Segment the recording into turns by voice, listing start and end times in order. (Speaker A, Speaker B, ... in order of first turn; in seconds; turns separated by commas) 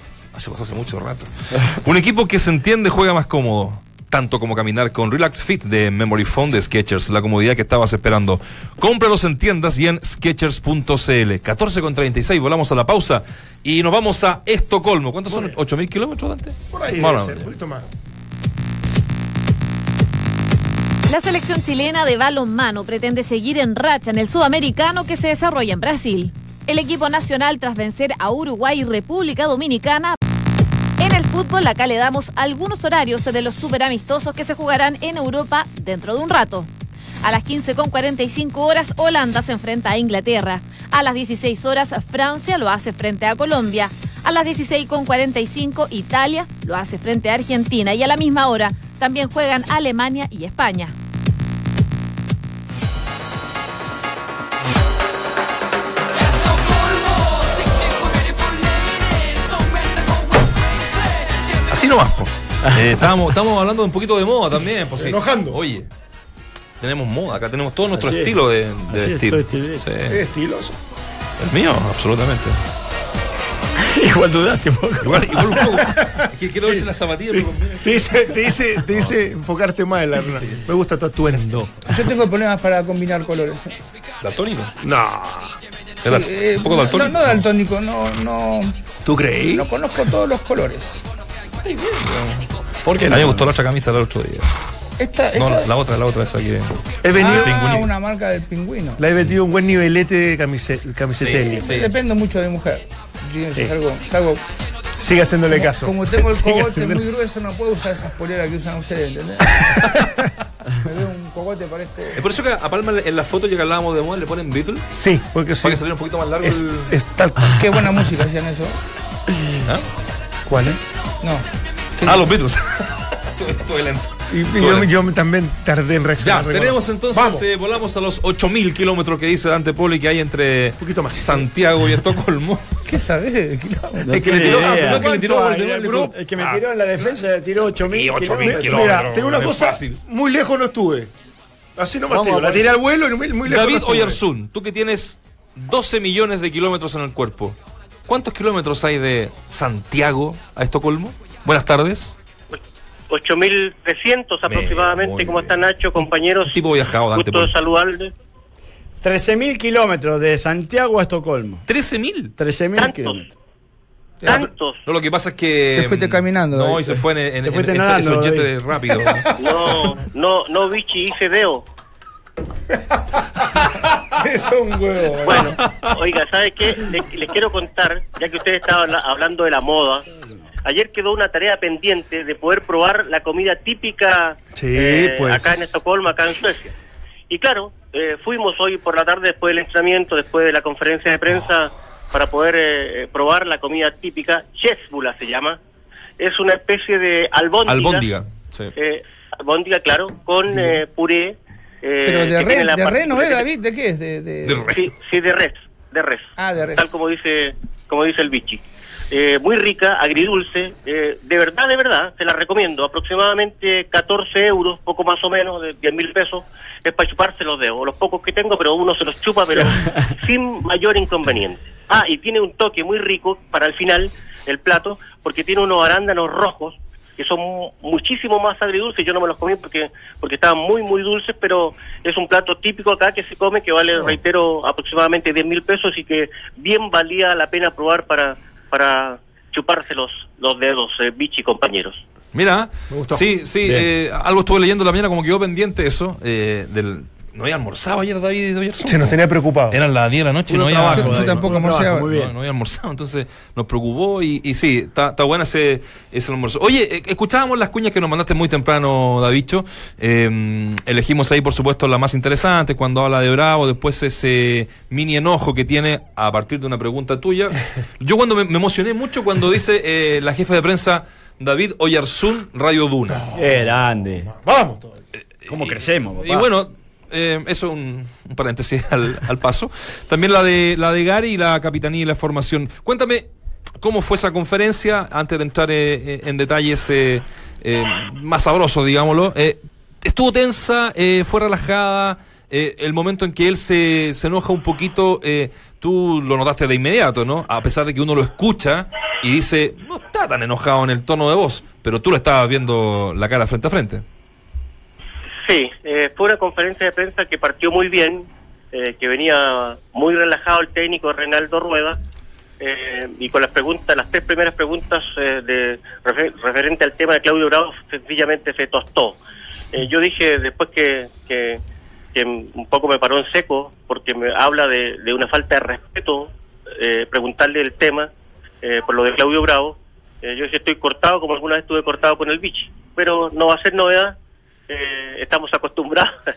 Speaker A: 0.3-17.5, Speaker B: 15.3-15.5, Speaker B: 16.7-17.9, Speaker C: 21.1-30.2, Speaker C: 31.0-36.7, Speaker C: 37.2-50.9, Speaker A: 61.7-65.9, Speaker D: 62.6-63.0, Speaker B: 65.0-65.6, Speaker A: 66.8-70.2, Speaker D: 67.9-68.3, Speaker D: 68.9-69.8, Speaker B: 70.1-70.8, Speaker A: 71.4-72.6, Speaker D: 73.8-75.6, Speaker A: 75.0-78.4, Speaker B: 75.8-81.8, Speaker E: 81.9-83.8, Speaker A: 84.2-84.7, Speaker B: 84.8-85.5, Speaker A: 86.0-87.4, Speaker E: 86.0-88.8, Speaker B: 89.0-89.7, Speaker E: 89.5-91.0, Speaker E: 91.7-92.1, Speaker A: 92.0-92.3, Speaker D: 92.8-93.5, Speaker A: 93.0-94.5, Speaker E: 95.0-95.7, Speaker A: 95.3-97.8, Speaker B: 97.0-97.8, Speaker E: 97.2-99.0, Speaker B: 99.0-101.7, Speaker A: 101.1-101.9, Speaker E: 101.6-104.4, Speaker B: 105.0-107.0, Speaker E: 105.5-110.0, Speaker E: 110.7-112.2, Speaker A: 112.2-114.8, Speaker B: 114.9-115.8, Speaker A: 115.6-116.9, Speaker B: 116.4-117.9, Speaker E: 117.6-118.7, Speaker B: 120.5-120.8, Speaker E: 120.5-121.5, Speaker E: 122.0-122.3, Speaker A: 122.0-124.9, Speaker B: 124.3-127.4, Speaker A: 126.2-132.8, Speaker B: 130.8-131.5, Speaker E: 132.8-134.1, Speaker D: 134.0-135.1, Speaker A: 134.1-136.1, Speaker B: 134.1-136.6, Speaker D: 136.1-139.0, Speaker A: 137.8-140.0, Speaker B: 138.4-141.1, Speaker B: 141.8-144.2, Speaker D: 142.1-142.7, Speaker A: 143.4-152.2, Speaker F: 152.5-156.6, Speaker A: 154.5-155.6, Speaker A: 156.4-157.5, Speaker F: 157.1-158.1, Speaker D: 159.0-161.6, Speaker A: 161.7-162.3, Speaker D: 162.4-163.3, Speaker F: 162.8-163.2, Speaker F: 164.2-164.8, Speaker A: 164.3-169.3, Speaker E: 165.7-167.0, Speaker D: 167.4-168.5, Speaker F: 169.4-171.7, Speaker B: 173.4-175.6, Speaker F: 175.2-180.0, Speaker A: 175.6-175.9, Speaker F: 180.6-186.7, Speaker B: 184.5-185.7, Speaker F: 187.3-195.6, Speaker F: 196.2-198.1, Speaker A: 197.7-198.7, Speaker F: 198.8-203.4, Speaker E: 202.1-204.8, Speaker A: 204.4-204.8, Speaker F: 204.7-242.0, Speaker E: 206.4-206.8, Speaker A: 242.3-249.2, Speaker B: 242.9-243.2, Speaker B: 248.8-249.8, Speaker A: 249.7-251.5, Speaker D: 250.5-252.3, Speaker E: 250.9-252.1, Speaker A: 252.0-273.2, Speaker B: 273.1-273.7, Speaker D: 273.3-274.3, Speaker B: 274.2-275.0, Speaker A: 275.4-283.3, Speaker D: 275.5-276.5, Speaker A: 283.8-304.0, Speaker F: 305.4-312.0, Speaker F: 312.6-319.2, Speaker F: 319.7-321.6, Speaker F: 322.1-328.1, Speaker F: 328.6-334.1, Speaker F: 334.7-336.1